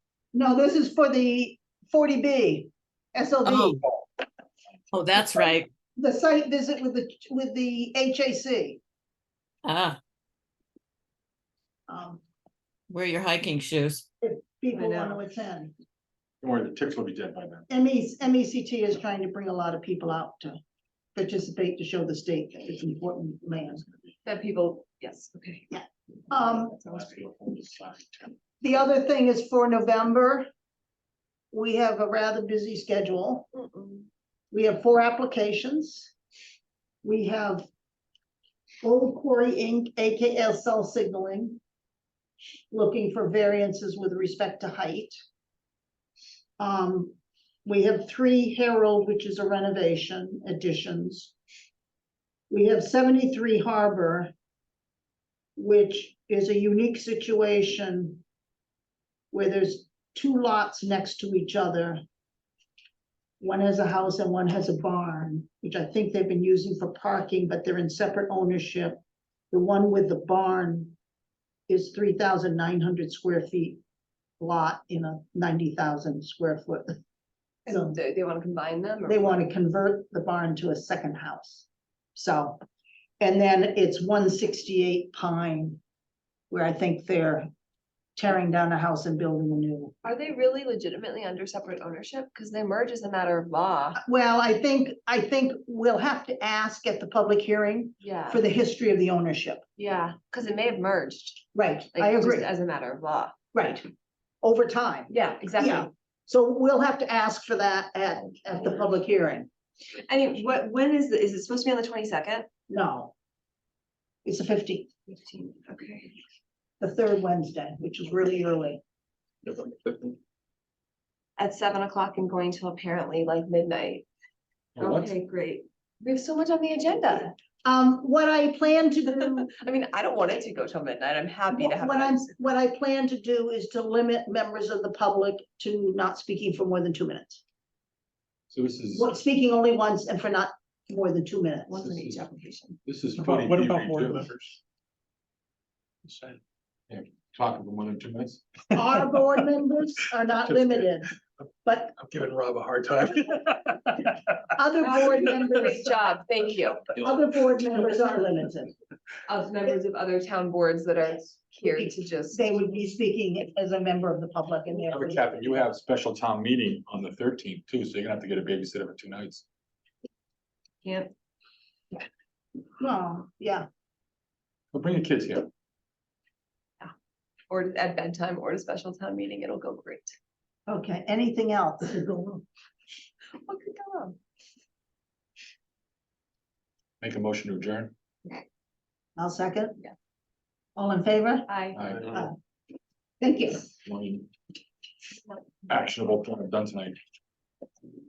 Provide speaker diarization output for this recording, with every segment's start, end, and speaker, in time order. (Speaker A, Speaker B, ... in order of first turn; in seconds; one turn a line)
Speaker A: 0.3-3.9
Speaker B: 3.5-3.8
Speaker B: 4.9-5.7
Speaker A: 6.0-8.8
Speaker B: 9.7-10.0
Speaker A: 11.9-12.2
Speaker B: 12.9-14.0
Speaker A: 14.2-15.7
Speaker C: 14.7-15.2
Speaker D: 16.4-17.6
Speaker A: 17.7-20.6
Speaker A: 21.1-23.9
Speaker C: 24.3-25.6
Speaker A: 25.7-26.7
Speaker C: 26.8-27.2
Speaker D: 26.9-28.3
Speaker A: 28.6-30.5
Speaker A: 31.5-33.5
Speaker C: 33.5-34.1
Speaker A: 34.5-36.1
Speaker A: 37.0-37.7
Speaker A: 38.8-41.6
Speaker A: 42.7-45.2
Speaker A: 46.6-51.3
Speaker A: 52.5-54.3
Speaker A: 55.6-58.2
Speaker A: 59.3-62.0
Speaker A: 63.4-69.0
Speaker A: 69.5-71.0
Speaker A: 71.7-73.8
Speaker A: 74.4-77.0
Speaker A: 77.7-78.0
Speaker C: 77.7-79.5
Speaker A: 79.1-82.6
Speaker A: 83.2-85.8
Speaker A: 86.5-87.5
Speaker A: 88.2-90.0
Speaker C: 90.0-94.0
Speaker A: 94.0-99.6
Speaker C: 98.0-98.4
Speaker C: 99.8-103.3
Speaker A: 101.5-102.5
Speaker A: 103.5-103.8
Speaker A: 104.4-109.5
Speaker C: 105.1-105.9
Speaker C: 110.1-112.5
Speaker A: 112.7-113.1
Speaker A: 114.2-114.9
Speaker C: 115.1-116.2
Speaker A: 116.8-118.8
Speaker C: 121.4-124.0
Speaker D: 124.8-125.1
Speaker C: 124.8-127.4
Speaker A: 127.6-129.5
Speaker C: 129.4-132.3
Speaker A: 131.5-137.4
Speaker D: 138.5-139.1
Speaker A: 138.9-141.7
Speaker C: 141.7-142.8
Speaker D: 141.8-142.2
Speaker D: 142.9-144.3
Speaker E: 143.2-144.6
Speaker E: 146.1-146.4
Speaker D: 146.9-148.4
Speaker A: 148.8-151.1
Speaker A: 151.6-151.9
Speaker E: 152.0-154.1
Speaker A: 154.6-156.0
Speaker C: 154.8-156.9
Speaker A: 157.0-158.7
Speaker C: 159.3-162.6
Speaker A: 161.6-165.2
Speaker D: 164.9-169.4
Speaker C: 170.8-171.1
Speaker A: 172.8-173.7
Speaker D: 174.7-175.5
Speaker C: 177.5-180.2
Speaker A: 180.7-182.4
Speaker C: 183.4-184.2
Speaker D: 187.0-187.9
Speaker A: 189.2-189.8
Speaker A: 190.8-191.5
Speaker C: 191.5-191.8
Speaker D: 191.8-192.3
Speaker A: 193.2-193.7
Speaker D: 193.9-194.3
Speaker D: 195.7-197.0